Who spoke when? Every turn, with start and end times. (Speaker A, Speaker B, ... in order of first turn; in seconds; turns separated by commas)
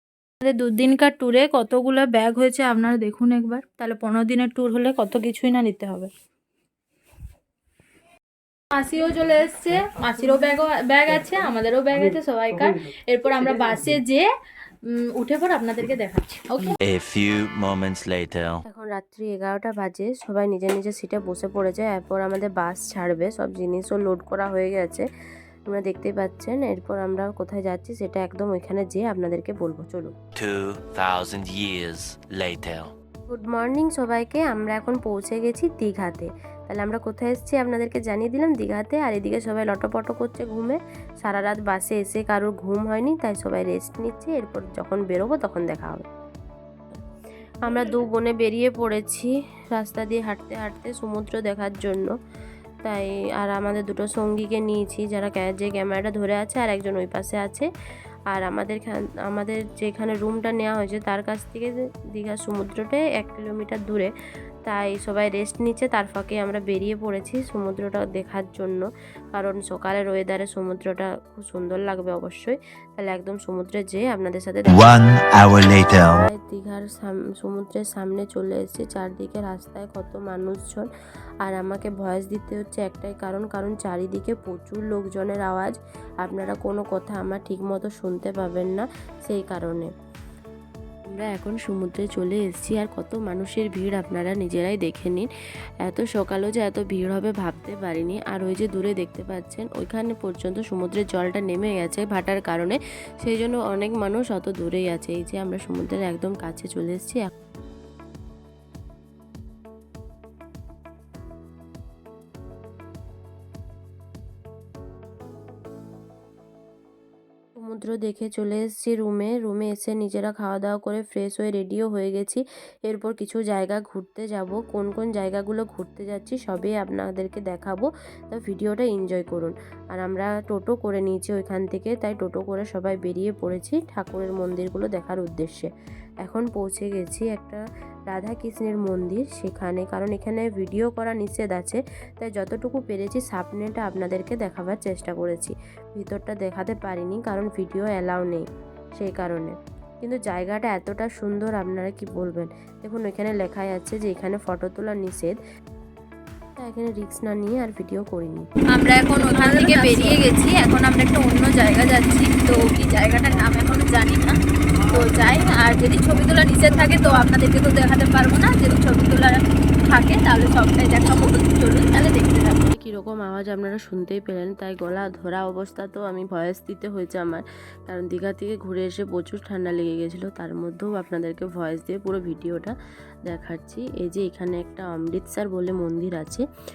Speaker A: 0.4-6.1, Speaker A: 8.7-14.2, Speaker A: 15.2-16.8, Speaker B: 16.8-18.6, Speaker C: 18.6-25.1, Speaker C: 25.7-30.1, Speaker B: 30.4-32.9, Speaker C: 33.3-46.0, Speaker C: 47.6-52.1, Speaker C: 52.8-57.7, Speaker C: 58.3-64.1, Speaker C: 64.7-74.9, Speaker B: 74.7-76.2, Speaker C: 75.6-80.9, Speaker C: 81.4-89.9, Speaker C: 91.1-95.3, Speaker C: 95.8-107.3, Speaker C: 117.6-135.7, Speaker C: 136.2-148.4, Speaker C: 149.0-155.3, Speaker C: 156.6-158.5, Speaker A: 158.7-164.3, Speaker C: 159.7-160.1, Speaker A: 164.9-172.6, Speaker C: 172.7-182.7, Speaker C: 183.3-186.4